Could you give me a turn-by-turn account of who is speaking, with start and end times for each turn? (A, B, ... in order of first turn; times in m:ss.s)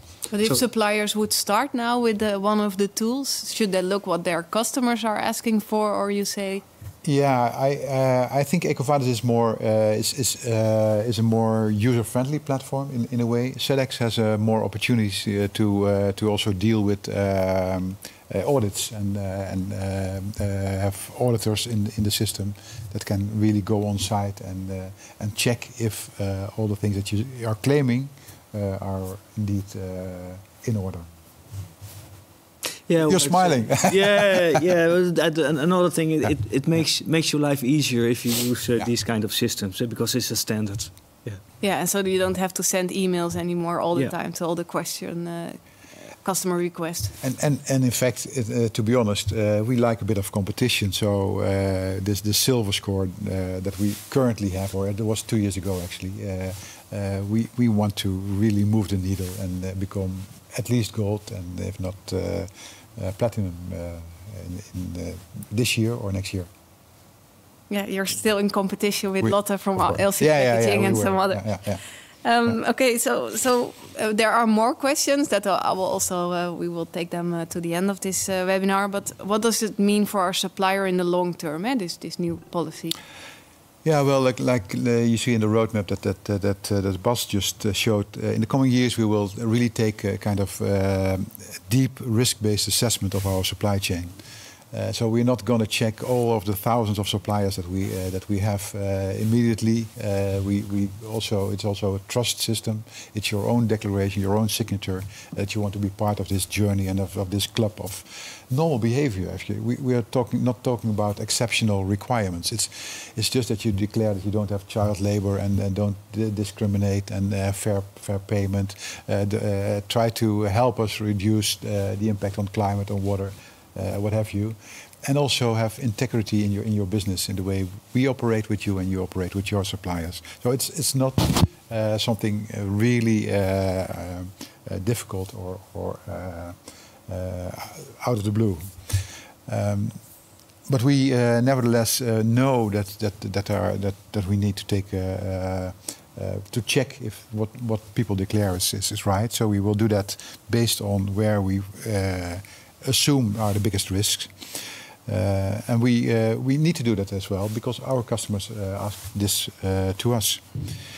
0:00.3-0:06.6 A
0:07.0-0:31.1 B
0:32.9-0:41.4 C
0:33.0-0:34.4 B
0:41.6-0:47.2 A
0:47.2-1:06.5 B
1:07.7-1:23.0 A
1:09.2-1:11.8 B
1:23.8-1:34.2 B
1:34.7-2:20.0 B
2:20.7-2:40.8 B